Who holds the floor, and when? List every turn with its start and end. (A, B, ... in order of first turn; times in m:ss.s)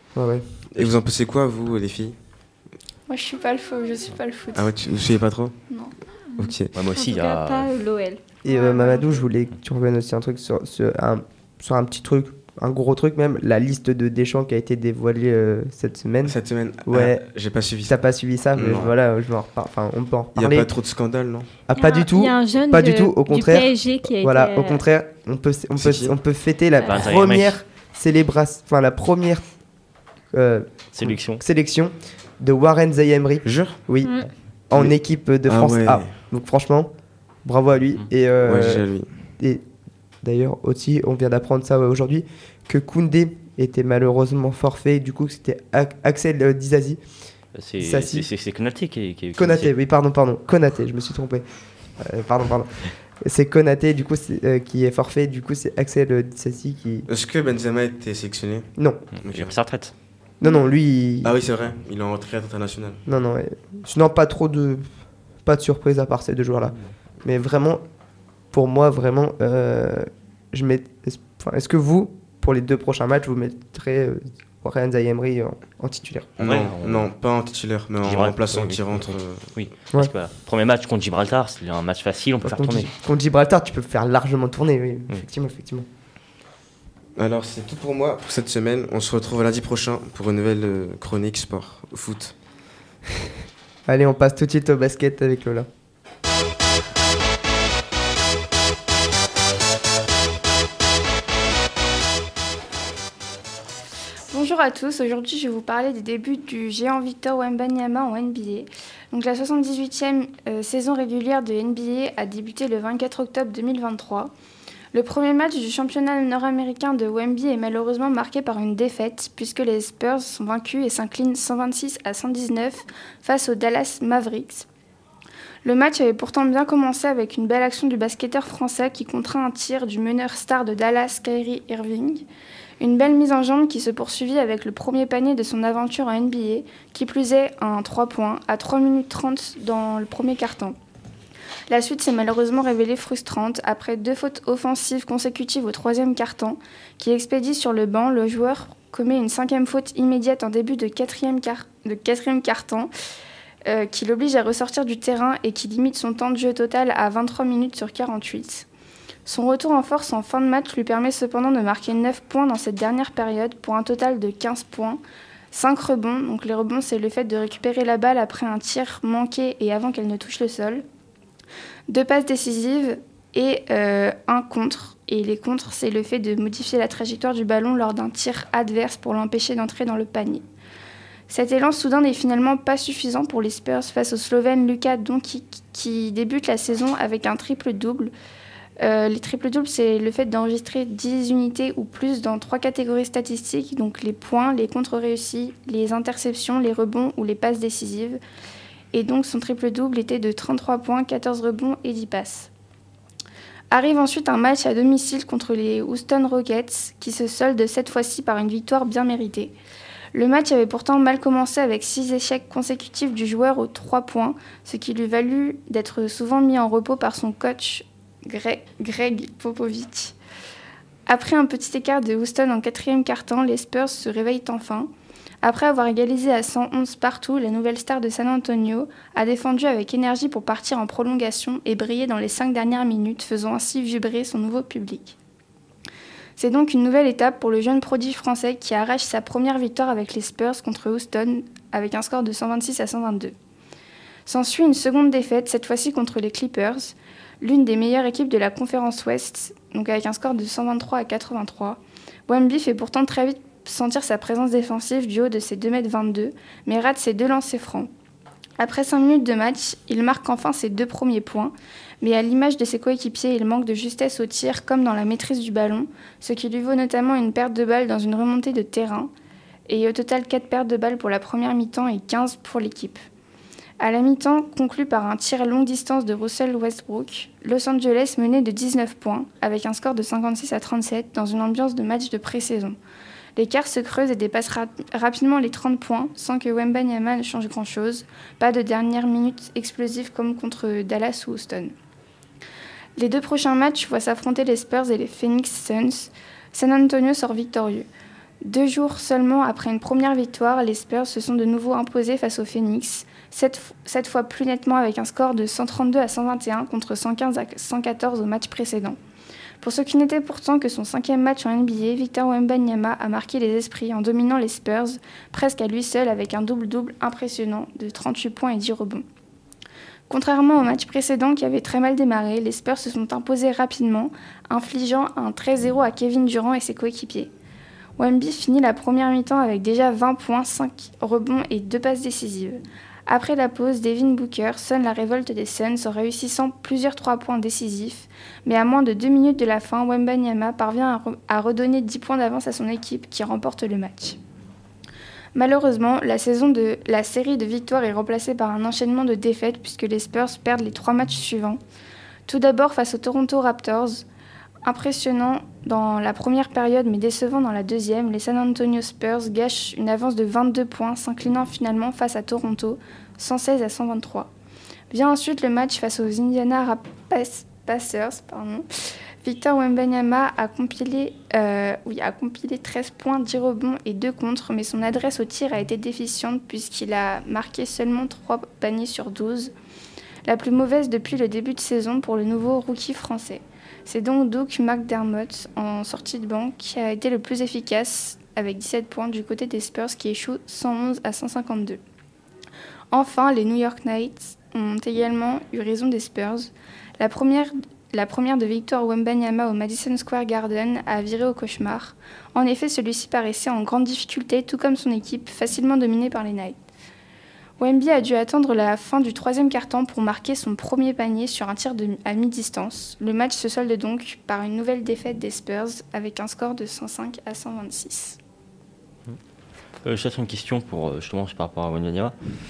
0:00.1-0:00.4 A
0:00.7-0:02.2 B
0:03.1-0:04.7 C
0:04.5-0:05.6 B
0:06.3-0:08.2 D
0:06.4-0:06.7 B
0:06.7-0:07.7 E
0:08.4-0:17.2 A
0:08.5-0:09.0 C
0:16.2-0:18.0 B
0:17.9-0:20.7 A
0:18.5-0:18.9 B
0:20.3-0:21.5 B
0:21.7-0:29.4 A
0:21.8-0:24.8 D
0:25.8-0:26.1 B
0:26.8-0:27.6 E
0:30.3-0:36.9 A
0:30.9-0:31.4 E
0:33.4-0:33.8 B
0:34.0-0:34.3 D
0:35.4-0:36.1 B
0:37.4-0:38.9 A
0:38.4-0:39.1 B
0:40.2-0:47.0 A
0:47.6-0:49.7 E
0:47.8-0:48.3 A
0:49.4-0:51.4 A
0:52.0-0:57.1 A
0:57.1-0:58.7 B
0:58.8-0:59.0 A
0:59.2-0:59.9 E
0:59.2-0:59.5 B
1:00.4-1:01.3 A
1:01.2-1:03.0 B
1:03.0-1:04.9 A
1:05.4-1:07.8 A
1:08.5-1:16.3 A
1:16.4-1:19.4 B
1:16.4-1:17.1 E
1:18.0-1:22.9 E
1:22.4-1:25.9 A
1:27.2-1:32.3 B
1:33.8-1:35.7 A
1:44.3-1:54.3 C
1:54.9-2:04.7 C
2:05.6-2:12.2 C
2:12.8-2:20.8 C
2:21.7-2:32.9 C
2:33.6-2:38.7 C
2:39.2-2:45.0 C
2:45.5-2:50.8 C
2:51.9-3:00.4 C
3:01.3-3:08.1 C
3:08.8-3:18.2 C
3:18.9-3:22.5 C
3:23.7-3:29.5 C
3:30.1-3:40.2 C
3:41.0-3:44.9 C
3:45.4-3:55.2 C
3:56.4-4:03.3 C
4:04.2-4:17.9 C
4:18.6-4:29.1 C
4:29.7-4:33.0 C
4:33.8-4:42.8 C
4:43.4-4:51.7 C
4:53.0-4:57.9 C
4:58.4-5:09.0 C
5:09.6-5:19.0 C
5:20.1-5:27.3 C
5:28.0-5:44.2 C
5:45.3-5:51.6 C
5:52.2-5:54.0 C
5:54.6-6:04.3 C
6:04.9-6:08.7 C
6:09.2-6:19.5 C
6:20.2-6:31.8 C
6:32.9-6:46.6 C
6:47.6-6:58.2 C
6:59.8-7:02.1 E